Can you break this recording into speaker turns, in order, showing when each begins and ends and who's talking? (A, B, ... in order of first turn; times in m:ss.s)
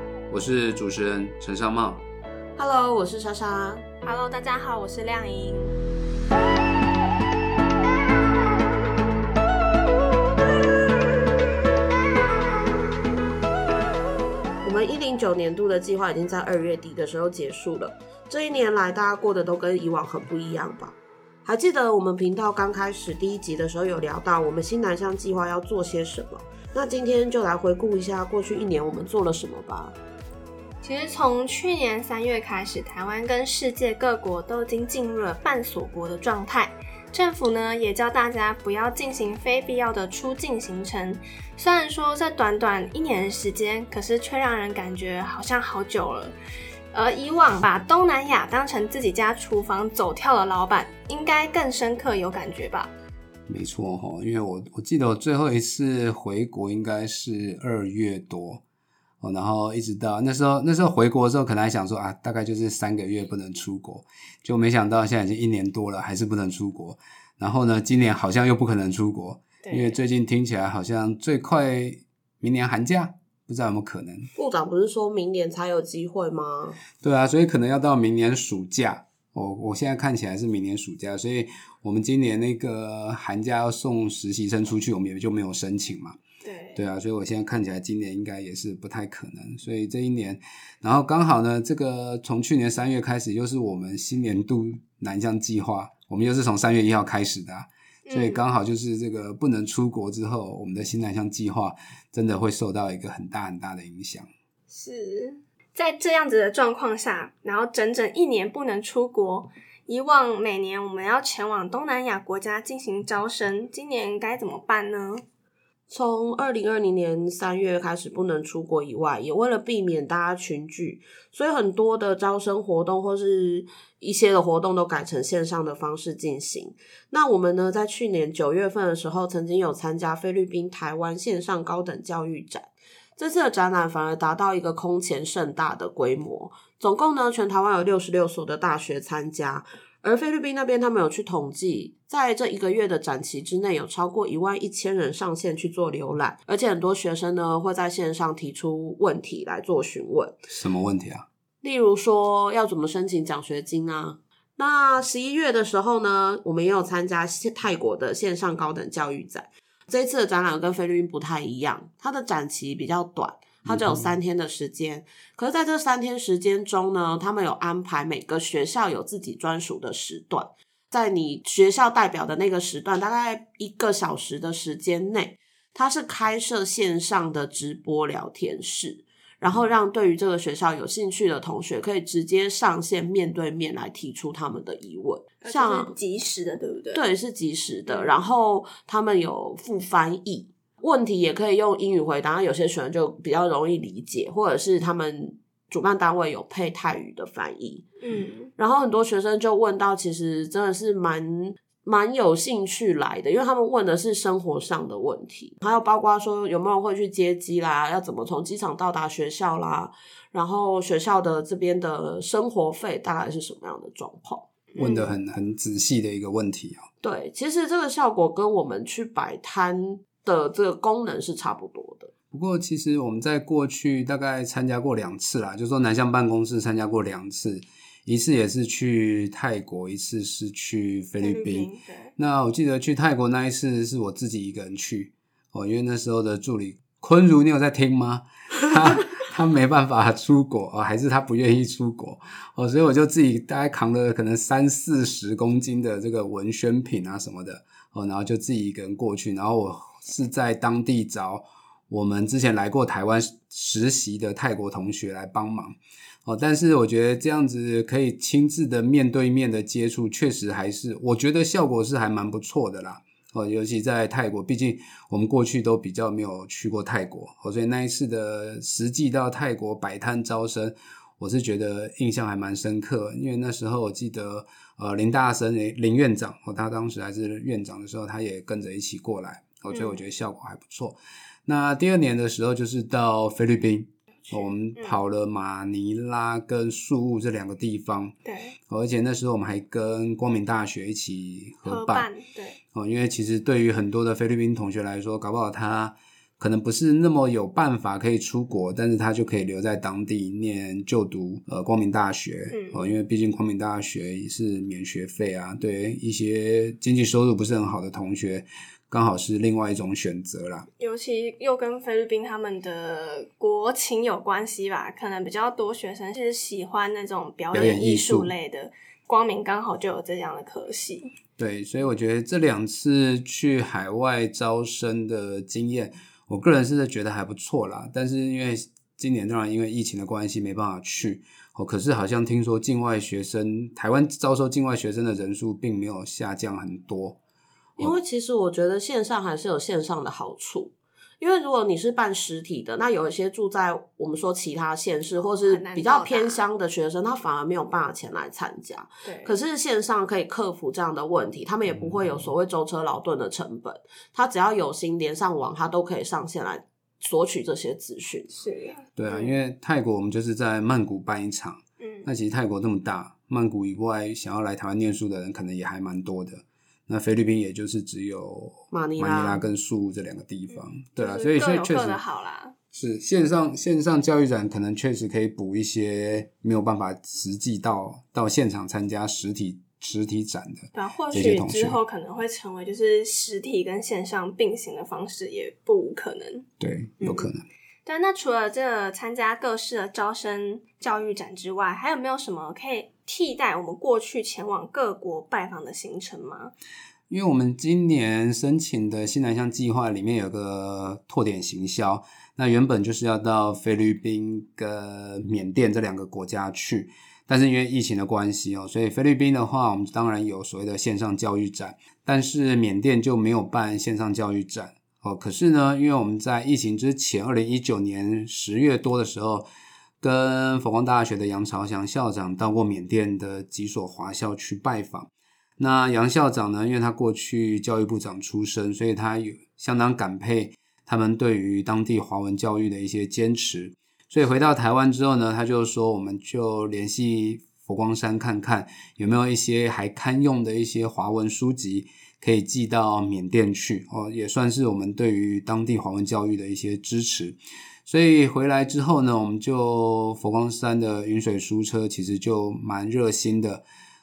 0:00.3-0:02.0 A
0:02.6-0:03.8 B
0:04.0-0:05.8 C
0:14.6-0:30.0 B
0:30.8-0:46.3 C
0:46.9-0:52.9 C
0:53.5-0:58.6 A
0:59.2-1:14.3 A
1:09.6-1:10.0 C
1:14.3-1:16.8 B
1:17.0-1:26.2 A
1:26.4-1:26.8 C
1:26.7-1:44.3 A
1:38.1-1:38.4 C
1:44.7-1:55.2 C
1:55.9-2:30.4 B
2:30.5-2:31.2 A
2:31.6-3:05.9 B
2:43.6-2:44.2 A
3:05.4-3:07.0 C
3:06.9-3:17.8 B
3:07.9-3:08.2 C
3:18.0-3:18.5 C
3:18.6-3:34.5 B
3:34.7-3:35.1 C
3:34.8-3:36.8 A
3:37.0-3:42.1 B
3:42.3-4:15.7 A
3:51.2-3:52.1 C
4:16.2-4:48.1 A
4:39.7-4:40.0 C
4:44.3-4:45.0 C
4:48.2-4:48.6 C
4:48.7-4:52.1 A
4:51.6-4:52.6 C
4:52.7-5:10.7 A
5:02.5-5:02.9 C
5:10.8-5:21.1 C
5:17.5-5:18.3 A
5:21.4-5:37.2 A
5:37.8-5:58.3 B
5:45.3-5:46.4 C
5:49.0-5:49.3 C
5:51.7-5:52.1 A
5:58.3-5:59.3 C
5:59.0-6:12.0 A
6:01.8-6:02.1 C
6:08.7-6:09.5 B
6:10.5-6:12.5 C
6:12.7-6:21.8 A
6:20.7-6:26.4 C
6:26.6-6:27.4 A
6:27.0-6:27.3 C
6:27.8-6:36.5 C
6:37.1-6:59.5 A
7:00.0-7:33.6 A